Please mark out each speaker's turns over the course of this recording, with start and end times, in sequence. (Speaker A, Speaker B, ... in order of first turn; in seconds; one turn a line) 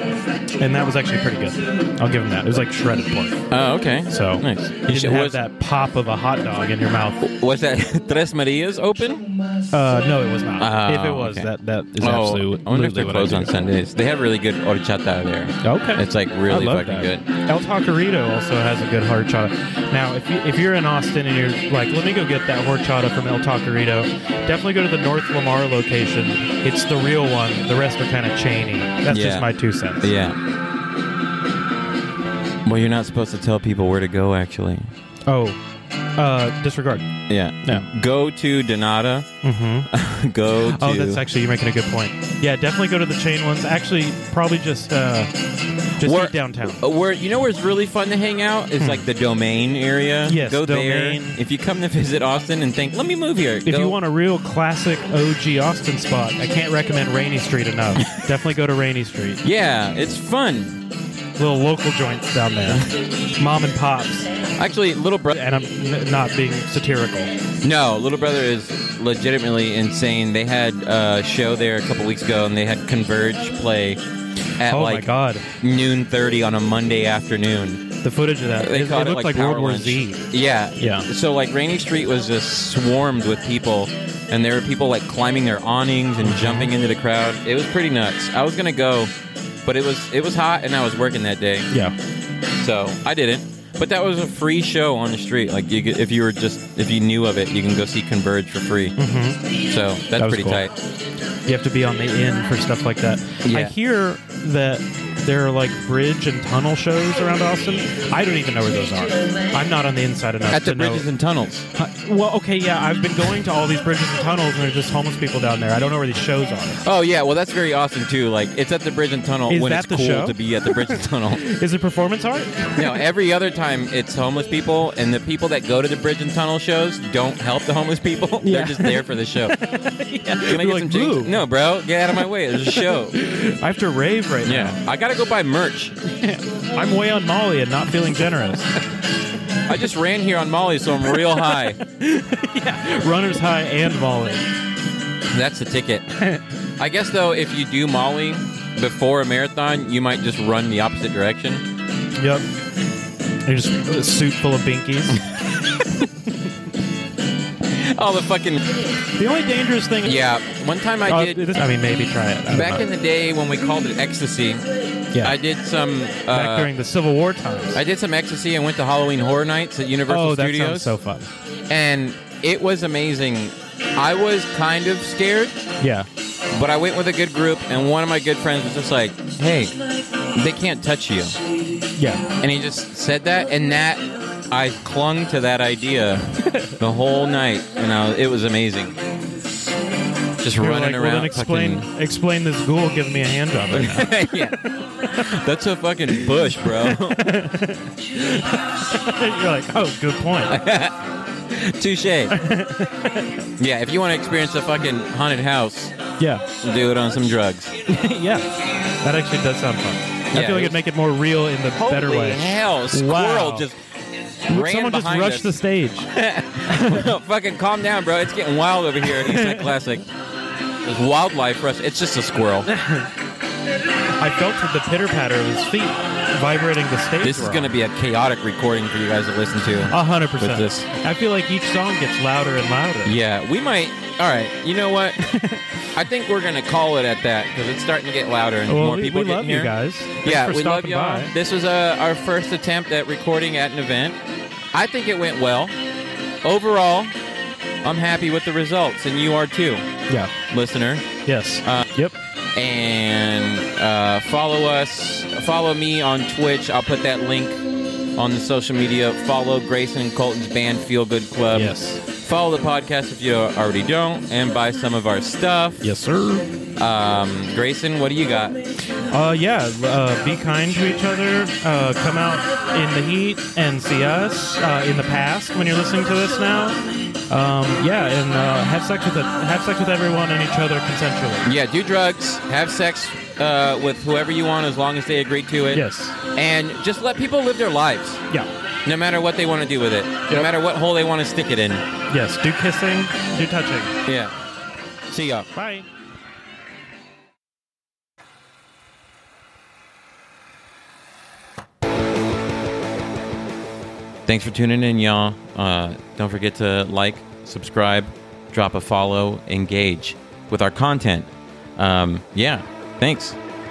Speaker A: 0.6-3.4
Speaker B: 3.5-5.4
Speaker A: 4.1-7.2
Speaker B: 7.2-9.3
Speaker A: 9.7-13.5
Speaker B: 10.6-17.2
Speaker A: 15.6-30.1
Speaker B: 29.1-30.4
Speaker B: 32.6-34.9
Speaker A: 35.3-35.6
Speaker A: 36.2-37.1
Speaker B: 37.3-39.3
Speaker A: 37.6-37.9
Speaker A: 39.4-39.9
Speaker B: 39.9-41.2
Speaker A: 40.6-45.3
Speaker A: 46.0-46.8
Speaker B: 46.0-54.0
Speaker A: 50.2-51.4
Speaker A: 53.6-59.4
Speaker B: 59.4-60.8
Speaker A: 61.4-64.3
Speaker B: 64.6-65.3
Speaker A: 65.3-67.3
Speaker B: 67.6-74.0
Speaker B: 74.6-75.1
Speaker A: 74.7-75.5
Speaker B: 75.6-77.8
Speaker A: 78.0-80.2
Speaker B: 78.6-89.1
Speaker A: 80.8-81.1
Speaker A: 86.2-86.7
Speaker B: 89.6-91.7
Speaker B: 92.6-98.9
Speaker A: 99.0-99.4
Speaker B: 99.6-100.7
Speaker A: 100.2-100.6
Speaker A: 101.5-111.1
Speaker B: 103.4-103.7
Speaker B: 110.5-111.7
Speaker A: 111.7-116.8
Speaker B: 116.8-121.4
Speaker A: 119.5-123.0
Speaker B: 122.8-129.5
Speaker A: 128.4-131.3
Speaker B: 130.4-133.2
Speaker A: 132.7-134.8
Speaker B: 134.4-136.0
Speaker A: 136.1-138.7
Speaker B: 139.7-141.8
Speaker A: 141.2-144.5
Speaker B: 145.3-146.1
Speaker B: 146.8-151.6
Speaker A: 153.4-155.2
Speaker B: 157.7-158.7
Speaker A: 159.2-160.2
Speaker B: 160.0-161.5
Speaker A: 161.1-162.8
Speaker B: 162.5-164.6
Speaker B: 165.2-166.7
Speaker A: 166.3-167.8
Speaker B: 167.7-170.9
Speaker A: 170.1-171.3
Speaker B: 171.7-175.6
Speaker A: 175.8-176.1
Speaker B: 176.5-179.7
Speaker B: 180.3-181.4
Speaker A: 181.9-182.2
Speaker B: 182.4-186.3
Speaker B: 186.8-189.0
Speaker B: 190.4-191.9
Speaker A: 190.6-194.8
Speaker B: 193.7-197.3
Speaker A: 196.7-200.6
Speaker B: 200.5-201.0
Speaker B: 201.5-202.3
Speaker A: 202.3-203.4
Speaker B: 203.6-205.9
Speaker A: 206.2-206.4
Speaker B: 206.6-207.7
Speaker A: 207.9-213.7
Speaker B: 210.3-210.8
Speaker B: 211.7-213.8
Speaker B: 214.5-215.5
Speaker A: 214.5-216.1
Speaker B: 216.1-220.0
Speaker A: 216.6-217.1
Speaker A: 219.1-219.7
Speaker B: 220.8-222.7
Speaker A: 222.7-223.1
Speaker A: 224.2-227.7
Speaker B: 227.2-230.9
Speaker A: 229.9-233.1
Speaker B: 233.0-235.4
Speaker A: 235.3-235.6
Speaker B: 235.9-244.2
Speaker A: 238.7-241.3
Speaker B: 244.7-245.8
Speaker B: 246.4-247.1
Speaker B: 247.8-249.8
Speaker B: 250.5-251.1
Speaker A: 251.2-252.1
Speaker B: 252.5-257.6
Speaker B: 258.2-265.9
Speaker A: 261.5-262.0
Speaker A: 265.8-266.4
Speaker B: 266.8-268.6
Speaker A: 269.1-281.5
Speaker B: 281.4-288.2
Speaker A: 285.7-286.2
Speaker B: 288.8-291.8
Speaker A: 292.1-293.9
Speaker B: 294.1-294.3
Speaker B: 295.1-295.5
Speaker A: 295.5-295.9
Speaker B: 304.2-313.4